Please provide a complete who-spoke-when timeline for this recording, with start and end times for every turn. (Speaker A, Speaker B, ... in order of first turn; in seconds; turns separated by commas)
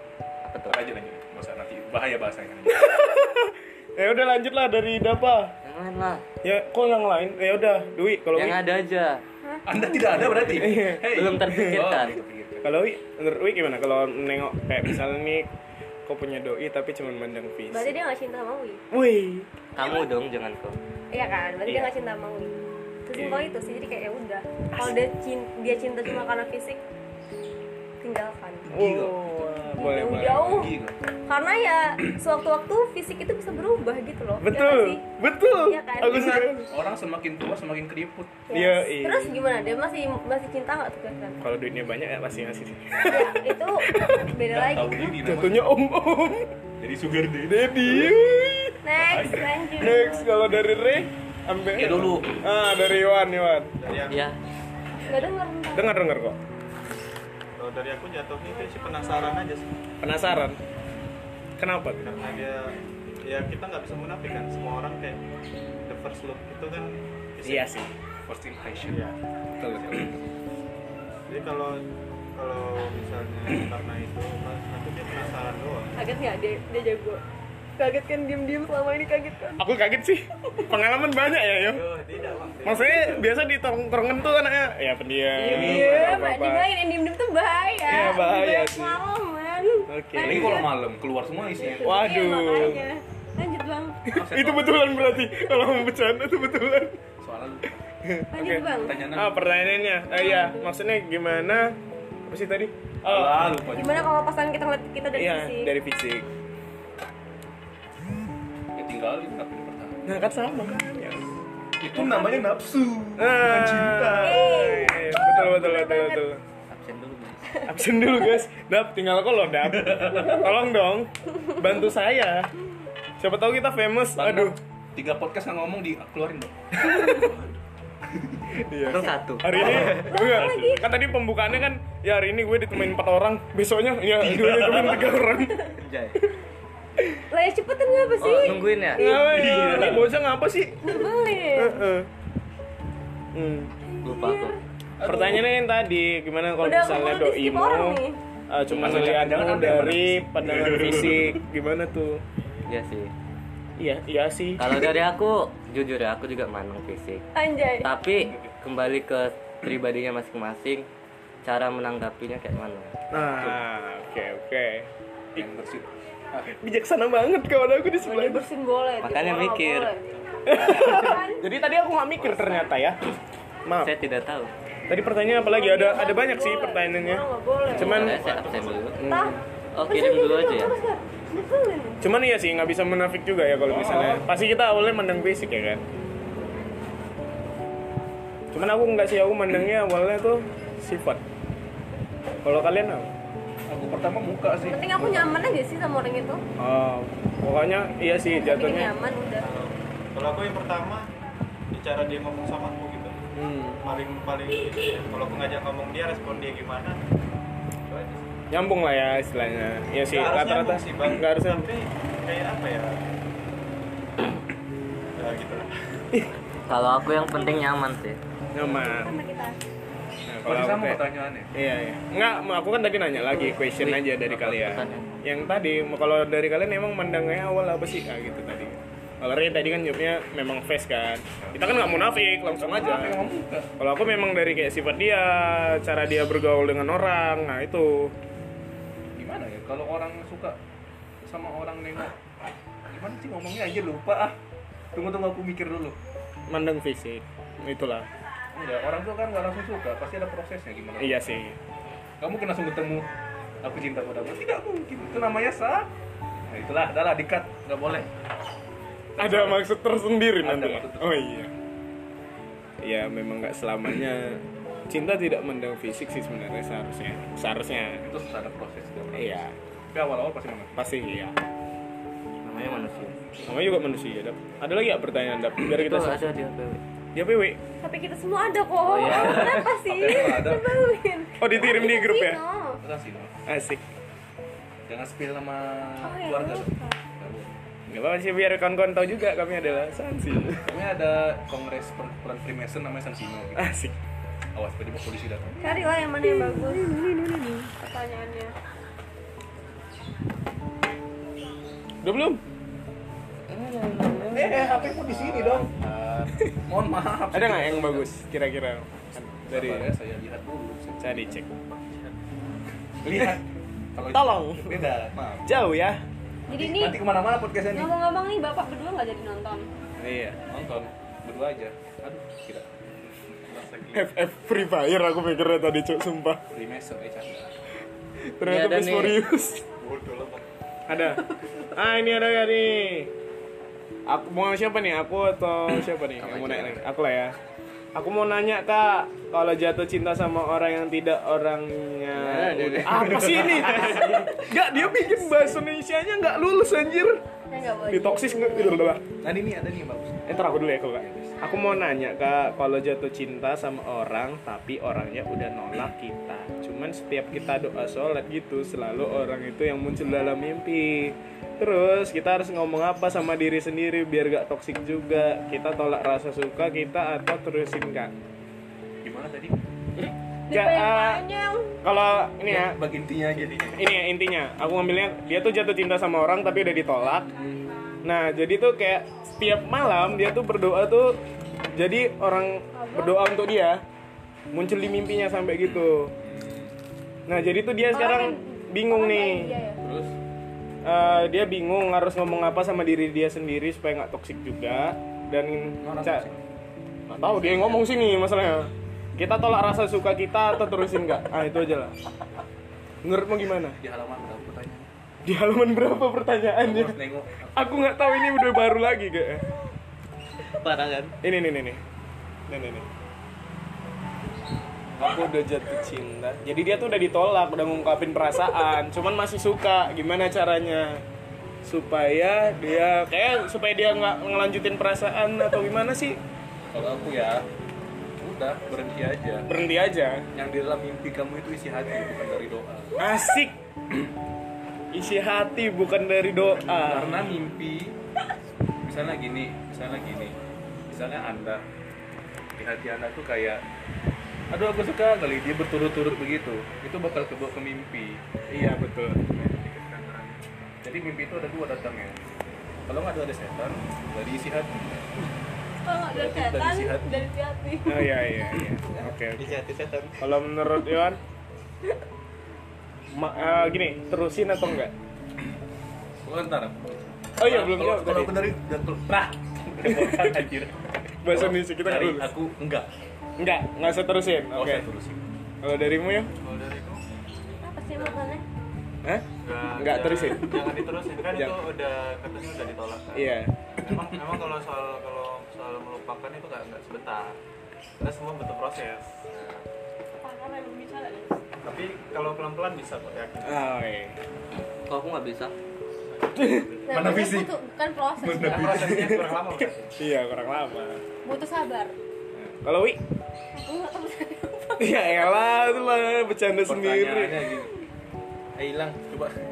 Speaker A: 0.5-0.8, Speaker B: 0.7-2.9, Speaker C: 2.7-5.5, Speaker A: 5.6-6.2, Speaker C: 6.4-8.6, Speaker A: 8.3-9.2, Speaker D: 9.5-10.2, Speaker B: 9.7-12.7, Speaker A: 10.2-12.2, Speaker C: 10.3-11.8, Speaker C: 12.6-15.5, Speaker C: 16.1-17.9, Speaker D: 17.7-18.8, Speaker C: 18.9-19.5, Speaker A: 19.8-20.8, Speaker D: 21.1-26.8, Speaker C: 21.7-21.9, Speaker C: 23.1-23.4, Speaker D: 28.0-28.7, Speaker B: 28.6-31.0, Speaker C: 28.7-30.7, Speaker D: 29.8-30.7, Speaker D: 31.3-35.0, Speaker C: 34.4-36.7, Speaker D: 35.5-36.4, Speaker B: 36.1-38.3, Speaker D: 38.5-41.4, Speaker C: 38.5-39.3, Speaker C: 41.4-44.2, Speaker D: 43.1-45.2, Speaker B: 44.5-45.7, Speaker C: 45.2-46.5, Speaker B: 46.8-48.2, Speaker C: 47.5-48.8, Speaker D: 48.9-50.0, Speaker B: 49.0-49.4, Speaker C: 49.8-53.7, Speaker B: 51.7-52.4, Speaker E: 53.8-54.2, Speaker A: 54.1-54.4, Speaker D: 55.3-55.9, Speaker C: 55.7-56.4, Speaker E: 57.6-59.7, Speaker D: 58.7-59.1, Speaker C: 60.0-60.6, Speaker C: 61.6-62.0, Speaker E: 62.0-65.2, Speaker E: 65.8-67.7, Speaker C: 67.4-67.9, Speaker B: 68.3-69.1, Speaker E: 68.9-70.1, Speaker B: 69.6-70.2, Speaker E: 71.3-71.8, Speaker E: 72.3-75.9, Speaker D: 76.0-77.2, Speaker D: 77.8-79.6, Speaker C: 79.6-81.8, Speaker E: 81.6-83.3, Speaker C: 82.6-86.7, Speaker D: 85.3-90.7, Speaker B: 85.4-86.2, Speaker C: 87.9-89.0, Speaker C: 89.9-90.6, Speaker B: 90.2-92.1, Speaker D: 91.6-94.1, Speaker C: 91.8-92.9, Speaker B: 94.1-95.3, Speaker C: 94.1-97.0, Speaker B: 97.2-97.9, Speaker C: 98.0-103.5, Speaker D: 98.3-99.0, Speaker B: 98.8-99.3, Speaker D: 100.1-100.7, Speaker B: 103.0-104.1, Speaker D: 103.7-105.7, Speaker C: 105.1-106.3, Speaker B: 108.8-110.0, Speaker C: 110.1-111.3, Speaker B: 111.8-114.5, Speaker C: 113.2-116.4, Speaker D: 114.3-116.2, Speaker A: 116.7-117.6, Speaker C: 117.7-122.5, Speaker B: 119.7-120.5, Speaker C: 123.2-124.6, Speaker B: 124.2-126.5, Speaker C: 126.8-127.3, Speaker B: 127.1-127.6, Speaker B: 128.1-128.6, Speaker C: 128.5-135.7, Speaker A: 128.8-130.1, Speaker B: 129.9-130.4, Speaker D: 130.1-130.8, Speaker B: 134.3-135.2, Speaker A: 135.8-136.2, Speaker D: 137.3-139.9, Speaker A: 138.2-139.0, Speaker C: 139.0-141.0, Speaker B: 139.3-140.1, Speaker D: 140.9-141.9, Speaker C: 141.6-142.1, Speaker C: 143.3-143.7, Speaker A: 144.0-144.6, Speaker D: 144.1-144.6, Speaker B: 145.0-145.4, Speaker C: 145.0-152.2, Speaker D: 146.6-148.2, Speaker A: 148.7-149.2, Speaker B: 148.8-151.4, Speaker A: 152.7-153.1, Speaker C: 153.8-154.7, Speaker A: 154.6-157.2, Speaker D: 157.4-157.9, Speaker A: 157.8-160.9, Speaker B: 158.2-158.5, Speaker A: 161.4-162.9, Speaker C: 163.1-165.4, Speaker B: 165.3-166.5, Speaker C: 166.5-168.4, Speaker D: 168.0-170.0, Speaker A: 169.0-169.9, Speaker C: 170.5-173.0, Speaker D: 170.6-171.5, Speaker A: 172.2-172.6, Speaker C: 173.7-173.9, Speaker A: 173.8-174.5, Speaker C: 174.9-178.2, Speaker D: 175.4-177.9, Speaker A: 177.7-179.0, Speaker E: 178.0-179.0, Speaker C: 178.9-179.4, Speaker D: 179.0-182.0, Speaker A: 179.7-180.8, Speaker C: 182.0-185.8, Speaker B: 183.7-184.3, Speaker C: 188.5-191.2, Speaker C: 192.4-193.1, Speaker B: 193.7-195.5, Speaker D: 194.5-196.4, Speaker C: 196.6-198.9, Speaker D: 198.2-199.5, Speaker E: 199.4-201.1, Speaker E: 201.7-203.2, Speaker C: 203.3-203.8, Speaker E: 203.8-207.0, Speaker E: 207.9-208.2, Speaker C: 208.5-211.7, Speaker E: 210.1-213.1, Speaker E: 215.2-215.7, Speaker A: 216.7-218.2, Speaker C: 218.5-219.2, Speaker D: 218.6-219.6, Speaker C: 220.3-221.0, Speaker B: 220.5-221.5, Speaker C: 221.5-233.2, Speaker A: 223.4-225.2, Speaker B: 231.4-231.7, Speaker B: 232.6-233.7, Speaker C: 233.8-238.1, Speaker B: 239.2-240.6, Speaker B: 241.2-242.1, Speaker B: 242.9-244.4, Speaker B: 244.9-246.0, Speaker C: 246.5-248.1, Speaker B: 248.5-251.5, Speaker C: 251.0-251.6, Speaker B: 252.2-253.1, Speaker B: 253.6-258.1, Speaker B: 259.2-259.6, Speaker C: 259.2-261.5, Speaker B: 260.4-261.1, Speaker C: 262.8-268.0, Speaker B: 268.0-270.9, Speaker C: 269.1-269.5, Speaker C: 270.8-271.4, Speaker A: 272.4-273.2, Speaker C: 273.4-276.3, Speaker A: 275.6-276.8, Speaker C: 277.1-277.6, Speaker D: 277.8-282.8, Speaker A: 278.8-279.7, Speaker B: 279.1-280.7, Speaker C: 281.4-282.4, Speaker B: 281.5-281.9, Speaker B: 282.8-283.3, Speaker C: 283.5-283.8, Speaker B: 284.9-287.6, Speaker D: 286.0-286.9, Speaker C: 287.9-290.7, Speaker B: 290.7-293.7, Speaker C: 293.6-294.0, Speaker B: 294.6-295.9, Speaker D: 295.6-296.9, Speaker C: 296.2-297.7, Speaker D: 297.8-298.6, Speaker C: 302.0-302.4, Speaker C: 303.5-305.0, Speaker B: 304.3-305.7, Speaker E: 304.9-306.5, Speaker B: 306.7-308.1, Speaker C: 307.3-309.9, Speaker B: 309.5-311.4, Speaker C: 311.0-311.5, Speaker E: 311.7-312.2, Speaker B: 313.0-315.6, Speaker C: 313.1-313.4, Speaker C: 314.1-314.9, Speaker C: 315.4-316.0, Speaker D: 316.5-317.0, Speaker B: 316.5-317.9, Speaker D: 317.7-319.7, Speaker C: 320.0-320.4, Speaker B: 320.5-322.7, Speaker E: 323.4-324.1, Speaker C: 323.9-326.4, Speaker B: 326.5-327.5, Speaker C: 328.4-329.6, Speaker A: 328.4-329.2, Speaker E: 329.8-330.5, Speaker C: 330.9-333.1, Speaker C: 334.1-337.4, Speaker A: 336.2-336.8, Speaker C: 337.9-347.2, Speaker A: 342.1-344.1, Speaker B: 343.1-344.1, Speaker D: 347.5-348.9, Speaker C: 347.9-349.0, Speaker B: 349.2-350.4, Speaker C: 350.3-368.1, Speaker B: 350.9-351.4, Speaker B: 369.0-369.6, Speaker C: 370.0-371.2, Speaker D: 370.5-371.8, Speaker C: 371.8-372.8, Speaker B: 372.4-373.9, Speaker C: 373.7-377.3, Speaker B: 377.3-377.6, Speaker C: 378.0-381.2, Speaker C: 381.8-383.8, Speaker D: 382.7-383.2, Speaker C: 384.5-386.1, Speaker B: 385.8-386.8, Speaker C: 387.3-389.5, Speaker D: 387.9-389.8, Speaker B: 389.8-390.1, Speaker C: 390.8-396.3, Speaker B: 395.8-396.4, Speaker C: 397.1-401.9, Speaker A: 397.1-397.8, Speaker C: 403.0-403.8, Speaker B: 403.8-404.9, Speaker C: 405.2-407.0, Speaker B: 406.6-407.8, Speaker C: 407.5-409.4, Speaker A: 410.6-411.1, Speaker C: 411.2-411.8, Speaker C: 412.5-412.9, Speaker C: 415.0-421.0, Speaker C: 421.6-426.2, Speaker B: 426.7-427.4, Speaker B: 428.2-429.5, Speaker C: 429.5-430.3, Speaker B: 430.3-433.0, Speaker C: 433.0-433.6, Speaker C: 434.9-437.3, Speaker B: 436.8-438.0, Speaker B: 438.8-440.4, Speaker B: 440.9-441.6, Speaker B: 442.6-443.6, Speaker B: 444.5-448.2, Speaker C: 448.5-449.2, Speaker E: 449.3-450.5, Speaker B: 450.8-452.2, Speaker B: 452.9-455.0, Speaker D: 455.8-458.1, Speaker B: 456.1-457.3, Speaker C: 457.9-459.6, Speaker E: 459.4-460.3, Speaker C: 460.2-461.2, Speaker C: 463.1-464.9, Speaker B: 466.2-472.9, Speaker C: 467.4-468.4, Speaker C: 469.8-470.4, Speaker C: 471.2-472.3, Speaker C: 473.4-474.9, Speaker B: 474.5-475.3, Speaker C: 475.6-476.3, Speaker E: 476.4-477.0, Speaker D: 477.6-478.4, Speaker E: 477.9-478.4, Speaker C: 479.0-480.7, Speaker E: 479.4-487.4, Speaker C: 481.3-481.6, Speaker C: 483.1-483.5, Speaker E: 488.0-489.7, Speaker D: 490.2-491.4, Speaker E: 491.6-493.6, Speaker C: 493.4-494.2, Speaker A: 494.9-495.5, Speaker E: 496.1-497.3, Speaker C: 496.4-496.7, Speaker D: 496.9-498.8, Speaker B: 496.9-497.5, Speaker B: 498.2-499.2, Speaker E: 498.5-500.0, Speaker C: 498.8-499.4, Speaker C: 500.0-501.0, Speaker D: 501.2-501.9, Speaker C: 502.3-503.0, Speaker D: 503.6-505.8, Speaker C: 504.8-507.5, Speaker B: 506.6-507.7, Speaker B: 508.6-509.4